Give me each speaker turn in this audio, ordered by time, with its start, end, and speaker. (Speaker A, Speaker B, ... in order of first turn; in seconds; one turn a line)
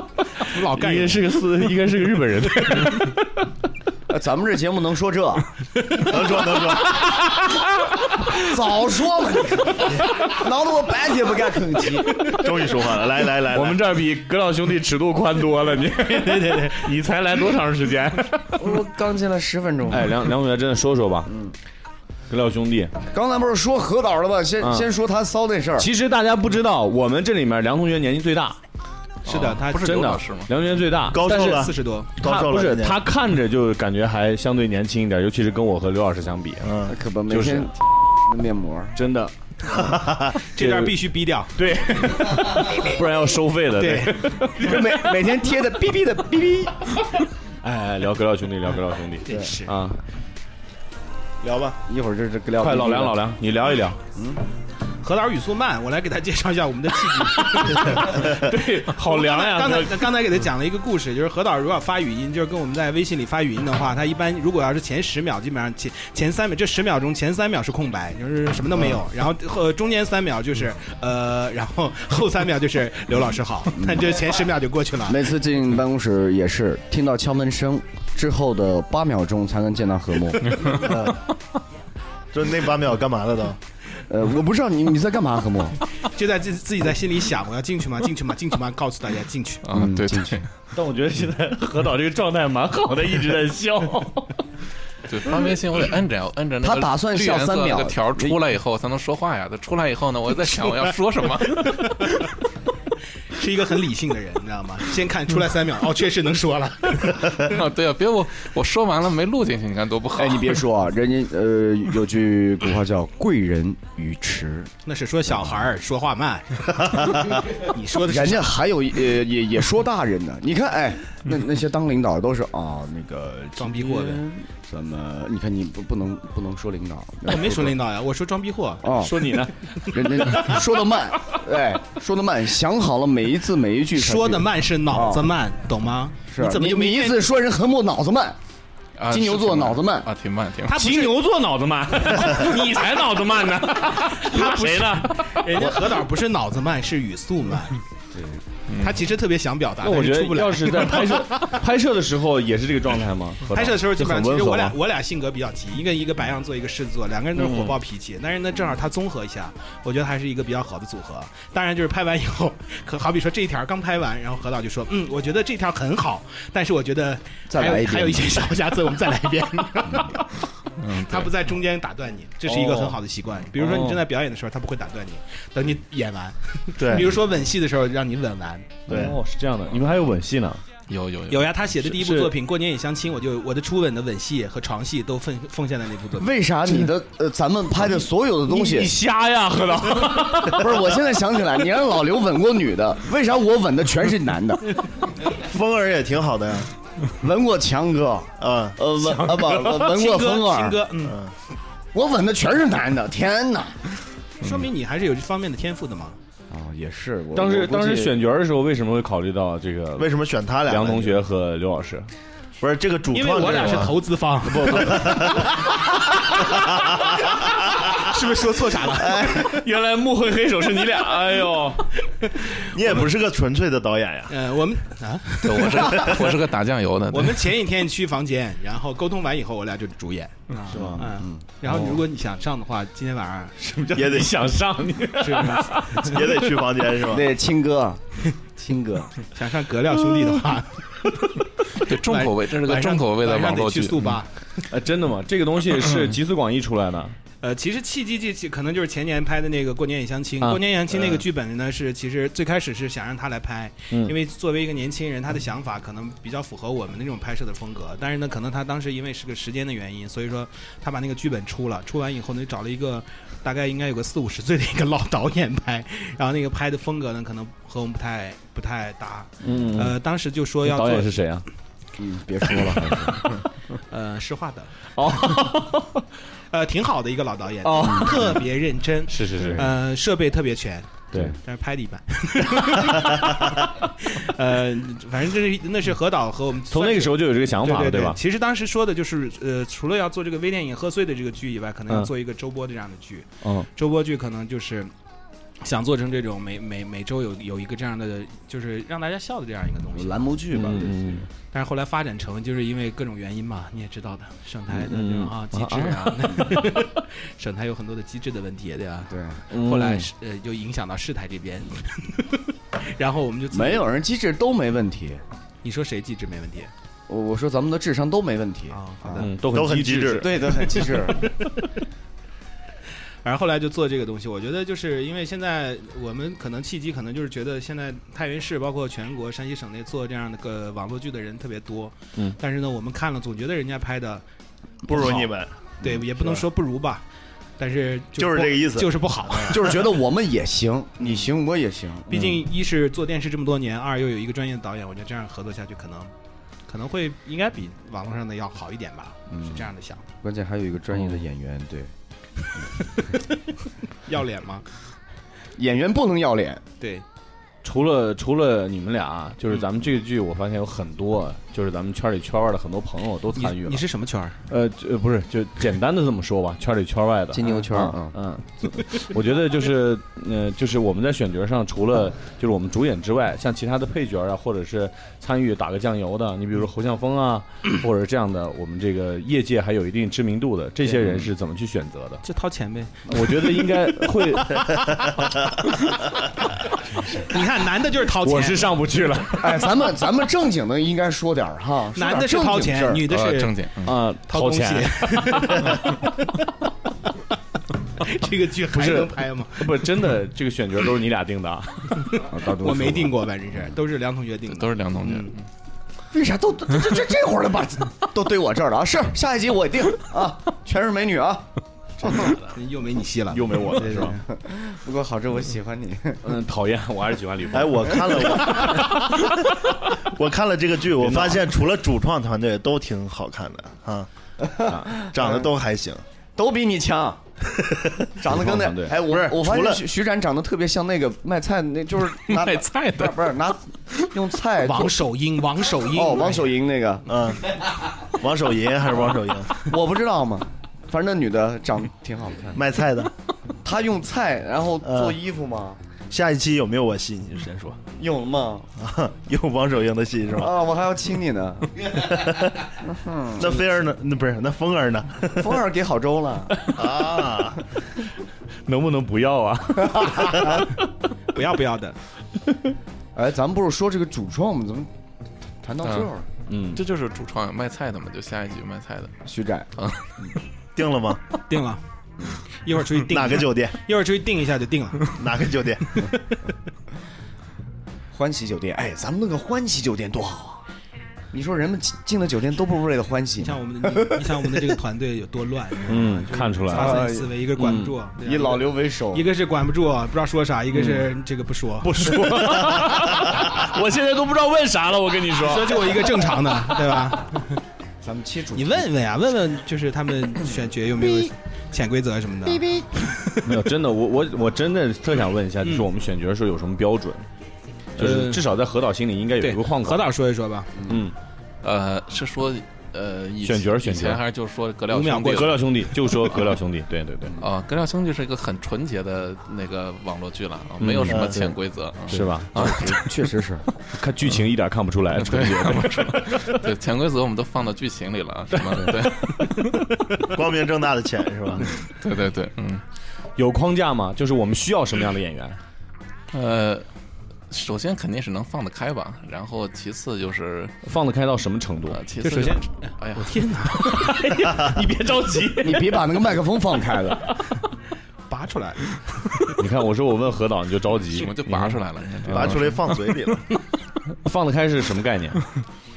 Speaker A: 0.4-1.8
Speaker B: 0.4-3.3
Speaker C: 4.1-5.5
Speaker D: 6.0-7.2
Speaker C: 8.3-12.3
Speaker D: 12.2-13.8
Speaker B: 13.5-18.7
Speaker C: 18.6-20.3
Speaker B: 19.9-21.3
Speaker C: 21.3-21.5
Speaker B: 22.3-22.9
Speaker C: 23.1-25.9
Speaker B: 24.6-24.9
Speaker B: 25.8-28.6
Speaker A: 29.2-30.0
Speaker E: 29.3-30.5
Speaker B: 29.3-31.2
Speaker D: 31.1-33.0
Speaker A: 31.2-32.1
Speaker B: 32.2-36.7
Speaker D: 36.6-37.0
Speaker C: 36.9-39.0
Speaker B: 37.3-37.7
Speaker B: 39.0-39.3
Speaker D: 39.7-40.4
Speaker A: 40.5-42.9
Speaker B: 40.6-41.0
Speaker B: 41.5-44.8
Speaker A: 43.8-44.8
Speaker C: 44.5-46.9
Speaker B: 47.6-50.0
Speaker A: 49.2-49.7
Speaker D: 51.4-51.8
Speaker C: 51.9-53.2
Speaker B: 52.6-54.0
Speaker C: 54.1-54.4
Speaker A: 55.0-75.3
Speaker B: 57.6-60.0
Speaker D: 57.9-58.2
Speaker C: 73.7-74.1
Speaker C: 75.0-80.8
Speaker E: 80.5-80.8
Speaker D: 80.7-81.2
Speaker D: 82.3-83.6
Speaker C: 84.1-85.8
Speaker A: 86.0-89.7
Speaker E: 89.6-90.5
Speaker C: 89.7-90.4
Speaker B: 90.7-94.4
Speaker E: 95.1-102.1
Speaker C: 96.6-98.4
Speaker A: 102.0-102.3
Speaker A: 103.3-107.3
Speaker E: 107.5-110.6
Speaker C: 110.1-114.7
Speaker A: 114.8-118.5
Speaker C: 115.3-115.6
Speaker D: 116.8-117.4
Speaker C: 118.0-127.8
Speaker A: 123.5-124.2
Speaker A: 127.3-128.8
Speaker C: 128.8-129.2
Speaker B: 129.0-130.2
Speaker C: 129.8-135.3
Speaker A: 133.9-137.2
Speaker C: 136.3-138.4
Speaker E: 139.0-140.8
Speaker C: 139.1-140.1
Speaker A: 140.7-141.2
Speaker B: 140.7-145.8
Speaker A: 143.9-147.8
Speaker C: 148.1-148.4
Speaker E: 148.7-149.1
Speaker A: 148.7-151.6
Speaker B: 149.8-154.8
Speaker A: 153.5-178.8
Speaker B: 157.4-157.7
Speaker C: 167.5-168.5
Speaker E: 170.8-171.3
Speaker B: 172.4-173.0
Speaker B: 173.5-174.0
Speaker D: 176.8-177.1
Speaker B: 178.9-180.6
Speaker D: 178.9-179.2
Speaker E: 180.9-181.9
Speaker A: 181.3-186.3
Speaker B: 181.9-182.3
Speaker C: 186.2-188.9
Speaker B: 188.5-190.7
Speaker C: 190.1-194.8
Speaker D: 195.3-196.7
Speaker C: 197.2-200.9
Speaker D: 198.4-198.8
Speaker A: 199.7-201.2
Speaker D: 201.0-201.3
Speaker C: 201.9-203.8
Speaker A: 204.4-206.2
Speaker C: 206.5-208.2
Speaker B: 207.3-210.1
Speaker D: 210.0-211.2
Speaker B: 210.7-212.1
Speaker D: 212.6-215.7
Speaker A: 213.1-215.4
Speaker B: 213.4-213.9
Speaker B: 214.7-215.2
Speaker D: 216.3-217.4
Speaker A: 218.0-219.2
Speaker D: 218.9-219.6
Speaker B: 219.1-221.9
Speaker D: 222.7-224.4
Speaker A: 224.3-226.2
Speaker E: 225.4-227.6
Speaker D: 225.8-226.2
Speaker A: 227.1-234.0
Speaker B: 230.7-231.0
Speaker D: 230.7-231.0
Speaker C: 231.2-231.4
Speaker B: 231.7-232.0
Speaker B: 233.9-236.2
Speaker D: 233.9-234.3
Speaker A: 235.1-236.2
Speaker D: 236.0-237.3
Speaker C: 237.1-239.1
Speaker A: 239.2-244.4
Speaker E: 241.7-244.1
Speaker B: 244.7-247.1
Speaker A: 247.4-271.2
Speaker B: 250.4-251.2
Speaker B: 253.9-254.2
Speaker B: 269.4-270.0
Speaker B: 270.6-271.4
Speaker C: 272.0-273.3
Speaker A: 273.9-274.7
Speaker B: 274.9-276.0
Speaker A: 276.5-294.9
Speaker B: 277.6-278.4
Speaker C: 277.8-278.1
Speaker B: 279.1-279.7
Speaker B: 286.7-288.2
Speaker B: 293.4-293.7
Speaker A: 295.6-300.3
Speaker C: 299.9-301.2
Speaker B: 300.5-301.3
Speaker A: 301.4-313.8
Speaker B: 304.7-306.7
Speaker C: 309.1-309.4
Speaker B: 309.5-310.1
Speaker C: 313.5-315.2
Speaker A: 315.6-316.7
Speaker C: 317.1-319.3
Speaker A: 318.7-319.2
Speaker B: 319.1-320.4
Speaker D: 319.3-320.5
Speaker C: 320.1-321.3
Speaker A: 320.9-321.5
Speaker A: 323.2-334.2
Speaker A: 334.9-337.0
Speaker D: 334.9-335.7
Speaker A: 337.6-339.8
Speaker D: 338.1-339.6
Speaker C: 339.4-342.3
Speaker A: 342.1-346.1
Speaker A: 346.7-350.1
Speaker C: 349.3-349.7
Speaker C: 350.2-351.9
Speaker A: 354.1-354.6
Speaker C: 355.6-356.6
Speaker A: 356.8-357.0
Speaker B: 357.6-363.8
Speaker A: 363.4-364.4
Speaker B: 364.5-382.2
Speaker C: 367.3-368.1
Speaker A: 382.2-383.8
Speaker B: 383.1-384.8
Speaker A: 386.9-388.7
Speaker B: 388.2-389.7
Speaker C: 389.4-393.0
Speaker A: 391.9-393.6
Speaker E: 393.1-394.0
Speaker B: 393.8-395.6
Speaker A: 394.1-396.4
Speaker A: 398.0-400.0
Speaker B: 398.7-402.1
Speaker A: 402.1-405.3
Speaker C: 402.2-403.1
Speaker E: 404.5-405.4
Speaker C: 406.1-412.4
Speaker A: 412.1-414.2
Speaker B: 413.3-414.2
Speaker C: 414.3-416.2
Speaker B: 416.2-418.2
Speaker D: 417.5-419.2
Speaker D: 420.1-424.1
Speaker B: 421.0-421.5
Speaker C: 424.4-425.5
Speaker D: 425.0-426.0
Speaker C: 426.4-427.2
Speaker C: 428.2-435.0
Speaker B: 428.3-429.0
Speaker D: 428.9-429.8
Speaker E: 432.2-433.3
Speaker A: 434.6-436.5
Speaker C: 435.9-437.1
Speaker D: 437.1-439.6
Speaker C: 439.6-442.6
Speaker D: 442.5-443.1
Speaker C: 443.6-445.8
Speaker D: 444.8-445.1
Speaker D: 446.1-447.8
Speaker C: 447.9-448.7
Speaker D: 448.8-450.5
Speaker C: 450.3-451.8
Speaker D: 451.9-452.7
Speaker C: 452.8-453.6
Speaker D: 453.4-455.5
Speaker C: 455.3-456.6
Speaker D: 456.6-457.6
Speaker B: 458.6-460.6
Speaker A: 461.3-462.0
Speaker C: 463.1-464.9
Speaker C: 465.6-466.2
Speaker E: 465.8-466.1
Speaker B: 466.5-466.8
Speaker E: 466.7-469.1
Speaker C: 469.2-469.7
Speaker E: 469.8-470.1
Speaker D: 470.7-471.2
Speaker A: 471.5-471.8
Speaker A: 472.6-475.1
Speaker D: 473.1-473.8
Speaker D: 475.1-476.1
Speaker C: 478.1-480.6
Speaker C: 481.3-484.7
Speaker A: 483.4-492.5
Speaker B: 485.9-487.0
Speaker C: 486.7-487.3
Speaker B: 487.6-487.9
Speaker C: 488.2-489.3
Speaker B: 490.7-491.1
Speaker B: 491.8-496.1
Speaker A: 495.4-497.6
Speaker C: 498.0-498.9
Speaker A: 498.5-503.5
Speaker C: 502.5-502.9
Speaker B: 503.4-507.2
Speaker A: 505.6-505.9
Speaker A: 508.0-508.4
Speaker B: 508.0-510.1
Speaker A: 509.4-510.8
Speaker B: 510.8-511.1
Speaker E: 511.6-515.6
Speaker B: 513.4-514.2
Speaker A: 514.9-515.6
Speaker B: 515.2-517.4
Speaker E: 517.4-523.2
Speaker B: 520.8-521.2
Speaker D: 521.1-521.5
Speaker B: 522.1-522.6
Speaker C: 522.5-523.6
Speaker B: 523.9-526.6
Speaker E: 525.2-529.9
Speaker B: 528.5-529.5
Speaker D: 530.3-531.7
Speaker E: 531.6-532.8
Speaker B: 533.4-535.6
Speaker E: 536.3-536.9
Speaker E: 537.5-540.8
Speaker B: 540.8-542.0
Speaker E: 541.9-543.5
Speaker A: 542.2-544.2
Speaker B: 543.8-546.1
Speaker C: 545.6-547.3
Speaker A: 548.3-549.5
Speaker B: 549.5-552.7
Speaker E: 551.1-552.9
Speaker D: 552.3-553.4
Speaker B: 554.2-555.4